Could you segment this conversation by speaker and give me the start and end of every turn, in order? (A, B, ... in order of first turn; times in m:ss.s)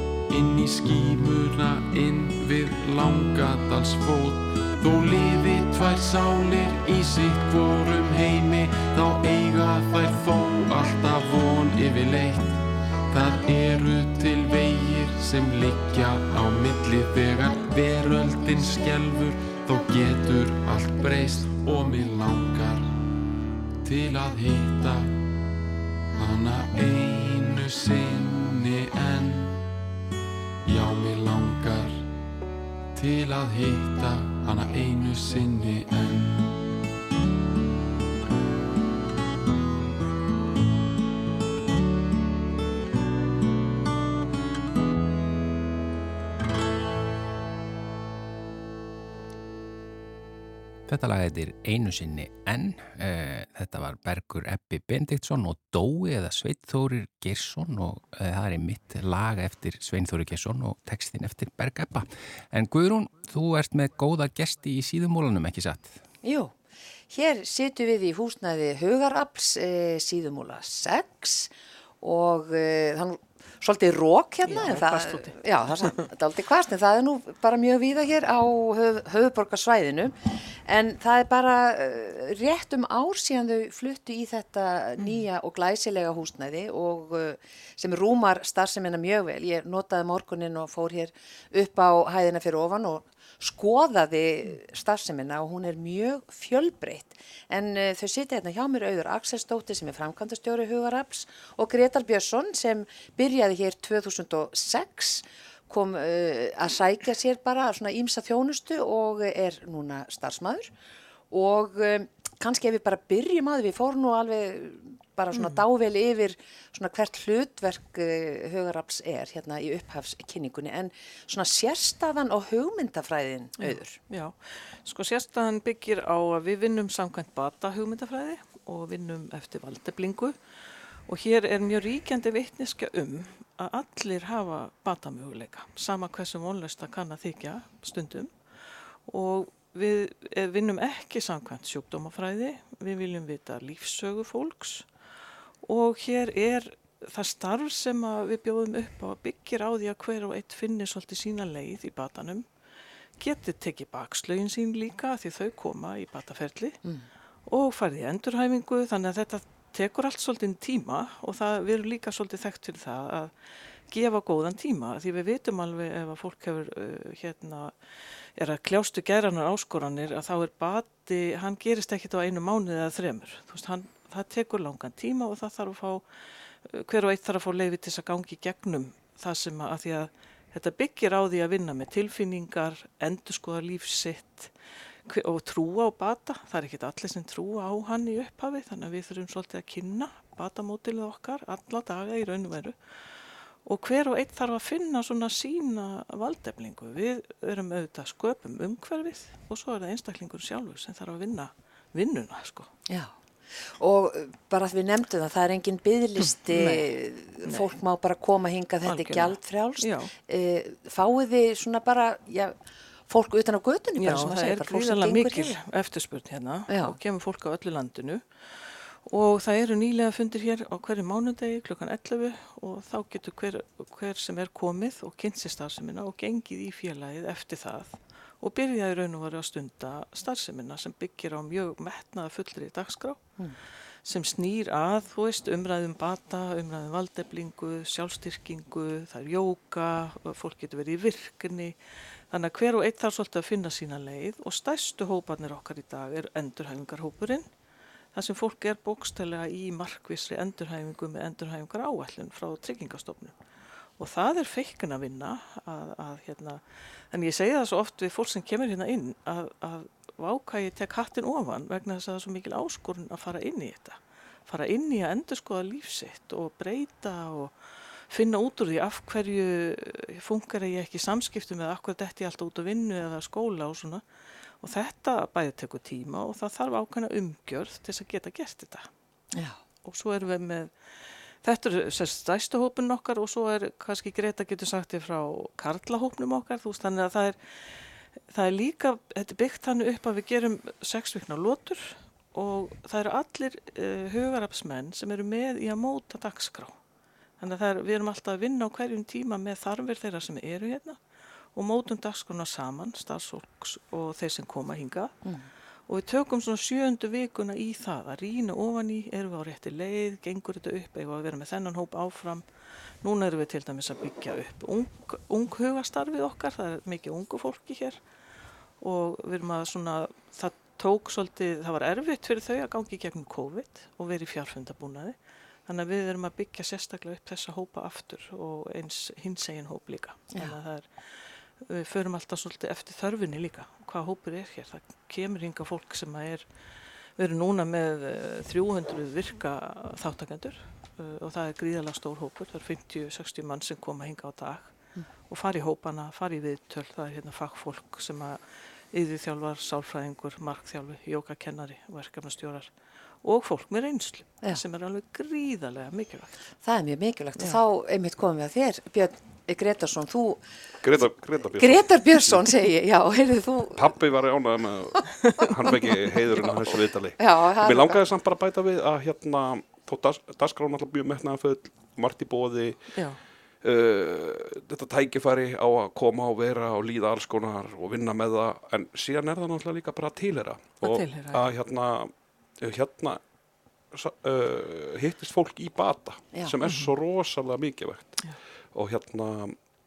0:00.3-0:23.0 A
0:23.8-0:25.2 A
0:26.2-0:29.6 A
0:30.6-0:32.1 A
0:33.0-0:36.5 A
0:50.9-1:06.0 B
1:06.2-1:06.6 C
1:07.1-1:20.2 C
1:14.4-1:16.1 D
1:20.7-1:50.7 C
1:51.3-2:04.0 C
1:55.3-1:55.6 D
2:03.6-2:10.4 D
2:11.1-2:24.9 D
2:25.6-2:32.5 D
2:33.2-2:36.8 D
2:37.5-2:43.3 D
2:43.9-2:47.7 D
2:48.4-2:56.0 D
2:56.6-3:04.5 D
3:05.1-3:12.8 D
3:13.6-3:22.7 D
3:22.9-3:35.6 C
3:26.2-3:26.8 D
3:28.8-3:30.1 D
3:34.0-3:53.3 D
3:36.7-3:37.0 C
3:54.0-4:01.8 D
4:02.3-4:07.5 D
4:08.1-4:13.4 D
4:14.0-4:27.5 D
4:28.1-4:34.0 D
4:34.6-4:38.9 D
4:39.3-4:39.6 C
4:39.8-4:40.7 D
4:41.4-4:47.4 D
4:48.3-4:56.8 D
4:57.4-5:01.0 D
5:01.5-5:05.2 D
5:05.9-5:12.4 D
5:13.0-5:18.0 D
5:18.8-5:36.5 D
5:37.2-5:44.7 D
5:45.3-5:48.4 D
5:48.9-5:52.7 D
5:53.2-5:56.4 D
5:56.6-6:00.4 C
6:00.8-6:02.5 E
6:01.6-6:03.9 C
6:03.8-6:12.8 E
6:07.2-6:08.0 C
6:13.6-6:23.2 E
6:20.8-6:21.5 D
6:23.9-6:29.6 E
6:26.6-6:26.9 D